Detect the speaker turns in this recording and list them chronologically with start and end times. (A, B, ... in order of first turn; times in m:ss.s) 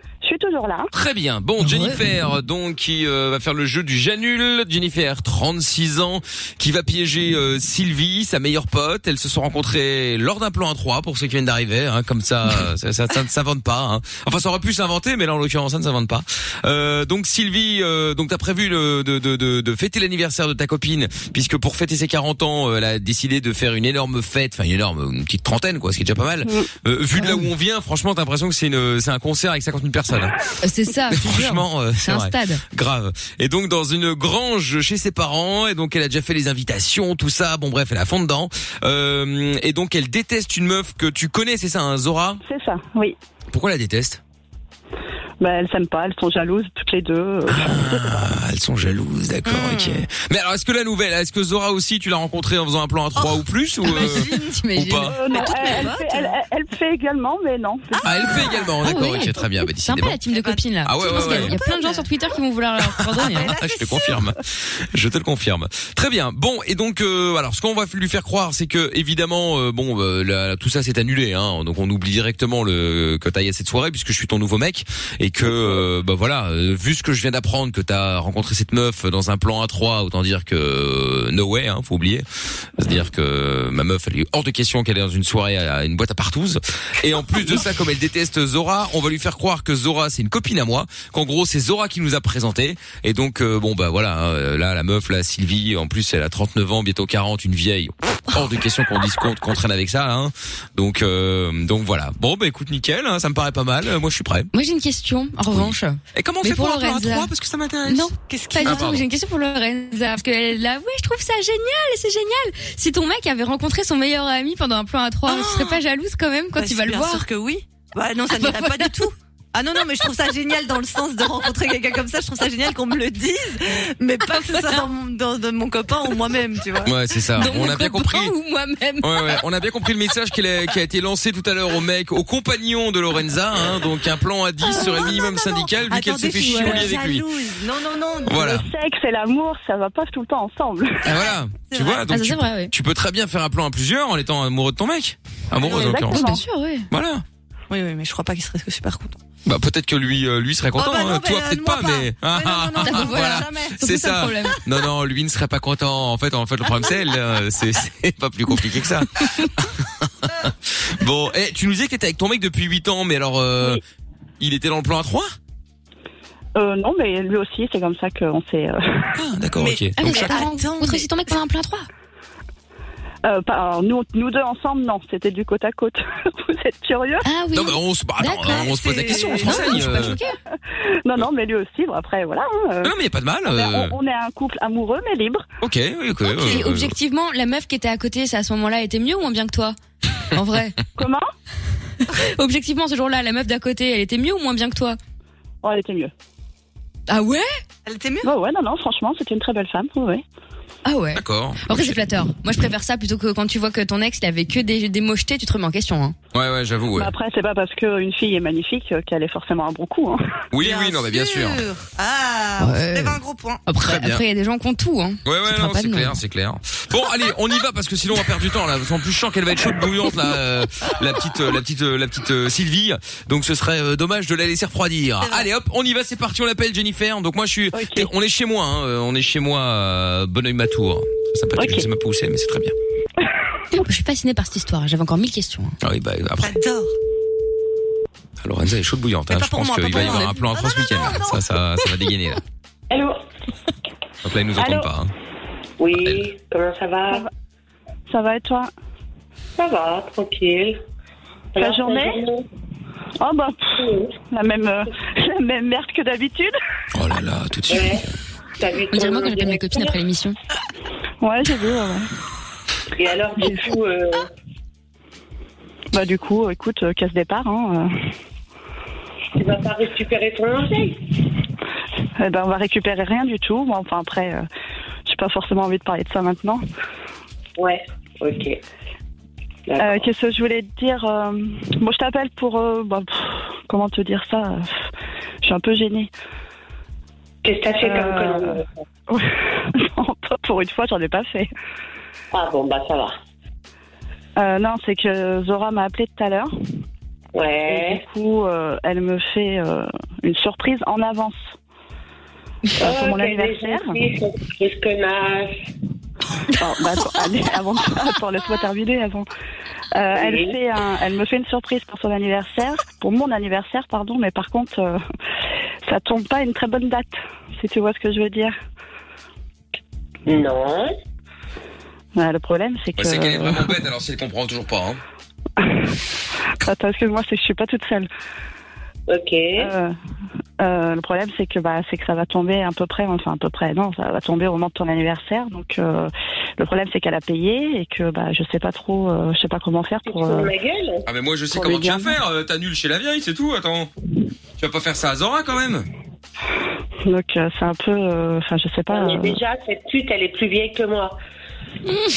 0:00.2-0:00.9 A
0:00.9-0:30.4 B
0:01.6-0:02.0 C
0:27.2-0:27.5 C
0:30.6-0:32.6 C
0:31.1-0:42.4 B
0:42.4-0:43.2 A
0:43.5-0:44.2 B
0:45.4-0:48.0 A
0:47.5-0:55.2 B
0:49.5-0:50.0 D
0:53.2-0:54.7 D
0:54.5-0:55.5 C
0:55.1-0:58.1 A
0:55.3-0:56.3 D
0:57.9-0:58.8 D
0:58.0-1:00.2 B
0:58.8-1:03.6 C
1:00.3-1:02.1 D
1:00.8-1:01.6 B
1:03.2-1:04.2 D
1:03.5-1:22.2 B
1:22.8-1:44.5 B
1:44.5-1:47.3 C
1:45.4-1:48.0 B
1:47.8-1:57.2 C
1:48.0-1:48.9 D
1:48.6-1:49.0 B
1:55.2-1:55.8 D
1:56.6-2:06.9 D
1:58.4-1:59.0 C
2:06.8-2:08.3 B
2:07.4-2:09.3 C
2:09.0-2:17.2 B
2:14.7-2:18.5 D
2:18.2-2:18.7 B
2:18.4-2:21.0 A
2:21.0-2:26.2 B
2:21.2-2:22.0 D
2:22.1-2:22.7 C
2:25.7-2:25.9 D
2:25.7-2:26.4 A
2:25.8-2:26.9 C
2:26.9-2:27.2 B
2:27.7-2:29.2 D
2:29.4-2:43.8 B
2:30.8-2:33.8 D
2:32.8-2:34.6 C
2:44.4-2:45.3 B
2:46.5-2:49.1 A
2:49.2-2:50.4 B
2:49.6-2:51.3 D
2:50.0-2:51.8 C
2:53.2-2:57.2 A
2:57.2-3:00.4 C
2:57.5-3:00.2 B
2:58.4-3:00.0 D
3:00.7-3:02.9 A
3:02.8-3:03.9 B
3:03.5-3:05.4 A
3:05.6-3:07.0 B
3:06.4-3:09.8 C
3:10.3-3:10.8 C
3:11.0-3:11.3 A
3:12.1-3:15.0 C
3:15.6-3:16.1 A
3:17.1-3:17.5 C
3:17.8-3:18.3 D
3:18.2-3:20.2 A
3:20.8-3:26.1 C
3:21.1-3:22.0 B
3:26.3-3:27.1 B
3:26.9-3:30.2 A
3:30.5-3:31.6 B
3:30.6-3:33.6 D
3:32.6-3:36.2 C
3:33.8-3:34.2 B
3:35.2-3:52.7 B
3:47.7-3:48.1 A
3:51.6-3:51.8 A
3:53.7-3:55.8 C
3:55.8-3:56.6 B
3:56.4-3:56.9 D
3:58.4-4:02.4 B
3:59.3-4:01.4 D
4:02.9-4:03.2 E
4:04.2-4:05.1 B
4:04.6-4:04.9 E
4:05.8-4:07.3 E
4:08.1-4:08.7 A
4:09.6-4:10.8 E
4:11.5-4:12.4 E
4:11.6-4:12.2 A
4:13.2-4:16.5 A
4:13.8-4:14.2 E
4:16.9-4:18.0 B
4:17.7-4:18.0 E
4:18.6-4:20.0 E
4:18.9-4:20.3 C
4:21.2-4:22.1 A
4:22.9-4:24.3 E
4:25.9-4:27.9 A
4:29.3-4:31.0 E
4:32.2-4:34.4 A
4:35.0-4:36.6 A
4:37.6-4:38.6 E
4:39.7-4:40.1 E
4:39.8-4:44.7 A
4:45.4-4:46.1 A
4:47.4-4:48.7 E
4:47.8-4:51.5 A
4:52.3-4:53.2 E
4:54.4-4:56.5 A
4:57.3-4:58.0 E
4:57.7-5:01.4 A
5:02.8-5:05.5 E
5:02.8-5:03.9 A
5:06.6-5:09.2 A
5:09.9-5:15.0 A
5:10.1-5:10.5 E
5:15.8-5:18.5 A
5:20.2-5:20.9 E
5:22.2-5:23.7 A
5:23.0-5:25.0 B
5:25.6-5:25.8 A
5:26.6-5:28.1 A
5:29.1-5:29.7 E
5:29.6-5:29.9 A
5:30.6-5:40.5 A
5:40.0-5:41.0 E
5:41.0-5:43.9 B
5:41.5-5:42.2 A
5:44.6-5:45.8 B
5:47.0-5:49.4 A
5:48.9-5:51.2 E